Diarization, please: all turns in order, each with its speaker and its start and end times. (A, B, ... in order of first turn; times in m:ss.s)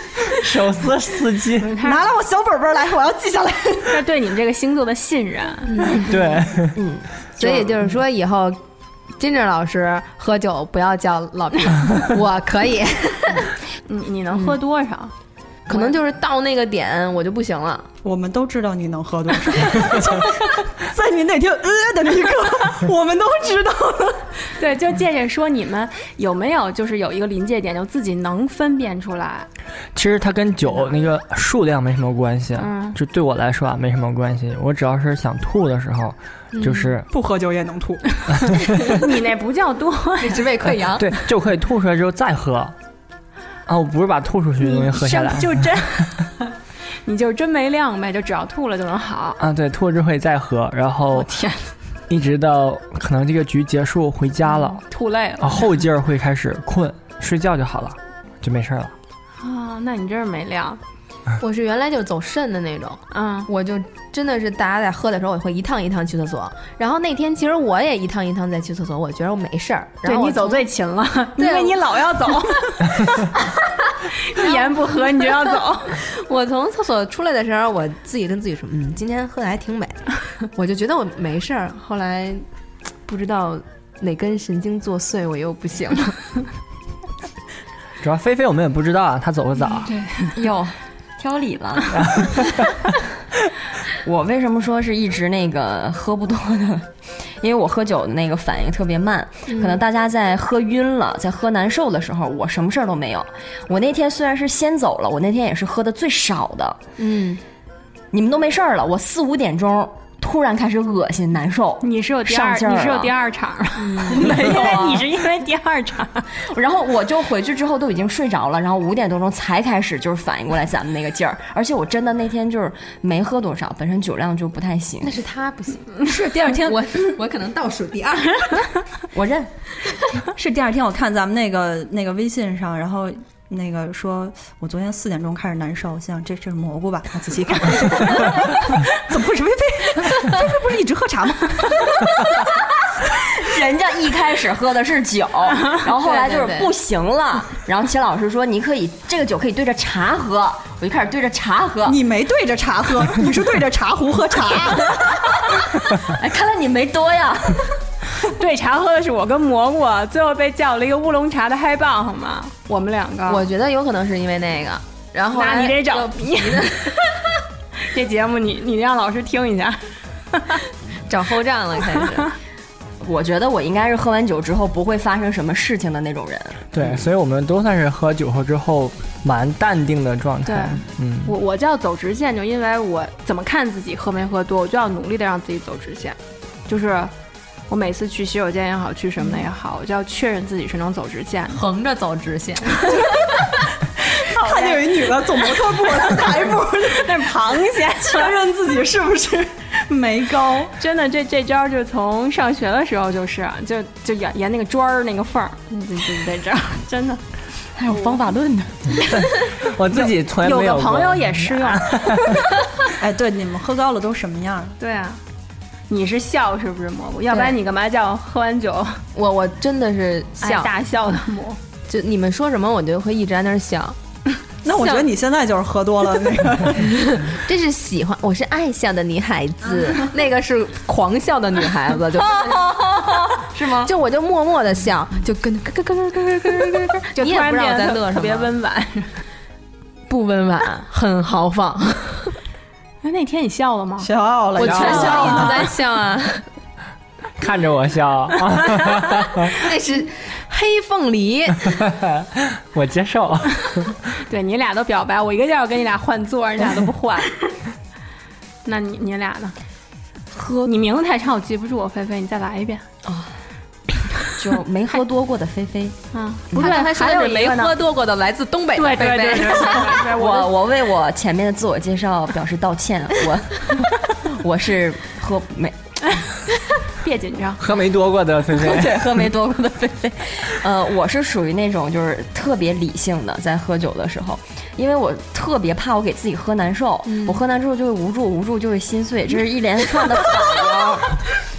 0:00.3-0:01.8 A
0:01.6-0:02.0 B
0:01.8-0:04.0 C
0:03.9-0:06.0 B
0:05.6-0:06.1 D
0:06.0-0:06.8 A
0:06.8-0:07.1 E
0:07.4-0:08.6 D
0:07.4-0:07.7 B
0:09.2-0:13.5 D
0:13.9-0:15.1 B
0:15.7-0:17.9 D
0:15.7-0:16.0 B
0:18.0-0:24.3 C
0:24.6-0:29.5 B
0:29.9-0:37.1 A
0:32.6-0:33.0 B
0:36.5-0:36.9 D
0:37.1-0:38.0 C
0:38.5-0:39.0 A
0:38.8-0:40.5 B
0:40.2-0:41.1 D
0:41.0-0:42.7 A
0:43.6-0:46.1 A
0:44.6-0:46.5 B
0:47.0-0:49.4 B
0:49.4-0:51.3 A
0:51.1-0:51.7 B
0:52.1-0:54.8 A
0:54.5-0:55.7 B
0:55.4-0:58.9 A
0:59.4-1:00.8 B
1:01.4-1:10.6 D
1:03.1-1:03.5 B
1:10.0-1:13.2 B
1:11.4-1:11.8 D
1:14.0-1:16.0 B
1:14.4-1:14.6 D
1:16.0-1:22.4 D
1:23.0-1:26.2 D
1:28.0-1:30.0 A
1:29.9-1:30.3 B
1:30.3-1:32.1 E
1:31.9-1:32.7 A
1:33.9-1:36.9 E
1:37.4-1:46.8 E
1:39.5-1:39.8 D
1:47.0-1:47.4 D
1:48.1-1:53.1 E
1:51.8-1:56.3 B
1:53.8-1:54.4 D
1:54.0-1:55.0 E
1:56.4-2:05.2 E
2:05.0-2:08.7 D
2:06.0-2:06.9 C
2:09.1-2:09.5 E
2:10.3-2:21.9 C
2:22.4-2:32.0 E
2:26.0-2:26.7 D
2:31.8-2:35.2 C
2:35.1-2:37.8 E
2:38.2-2:43.4 B
2:43.3-2:47.0 D
2:45.3-2:47.1 B
2:47.8-2:50.6 B
2:51.1-2:52.3 D
2:53.0-2:56.6 E
2:56.7-3:01.4 A
3:00.4-3:06.2 B
3:06.7-3:07.1 B
3:07.7-3:11.6 B
3:11.5-3:13.0 D
3:12.9-3:13.3 C
3:14.1-3:17.3 C
3:14.2-3:18.3 B
3:18.0-3:20.8 C
3:20.8-3:27.2 B
3:27.8-3:29.0 E
3:29.0-3:32.4 A
3:29.9-3:32.1 B
3:33.0-3:34.8 C
3:34.8-3:35.2 B
3:35.9-3:39.0 B
3:37.3-3:37.6 D
3:39.1-3:40.7 D
3:40.4-3:41.6 B
3:41.9-3:44.0 D
3:44.6-3:47.1 C
3:46.8-3:52.4 D
3:52.1-3:53.9 E
3:53.8-3:58.5 D
3:57.2-3:59.2 B
4:00.1-4:02.3 D
4:03.0-4:04.1 B
4:04.0-4:05.7 C
4:04.6-4:06.4 D
4:04.6-4:05.4 A
4:04.7-4:05.6 B
4:07.4-4:09.6 A
4:09.5-4:11.7 D
4:11.6-4:14.0 A
4:14.2-4:17.4 B
4:18.6-4:19.5 B
4:20.3-4:20.7 D
4:20.6-4:22.8 B
4:23.0-4:23.3 E
4:24.2-4:26.0 E
4:26.1-4:27.7 B
4:26.5-4:30.0 D
4:28.8-4:30.5 B
4:29.7-4:35.8 E
4:37.0-4:37.6 B
4:37.6-4:39.1 A
4:38.5-4:51.2 E
4:47.0-4:47.4 D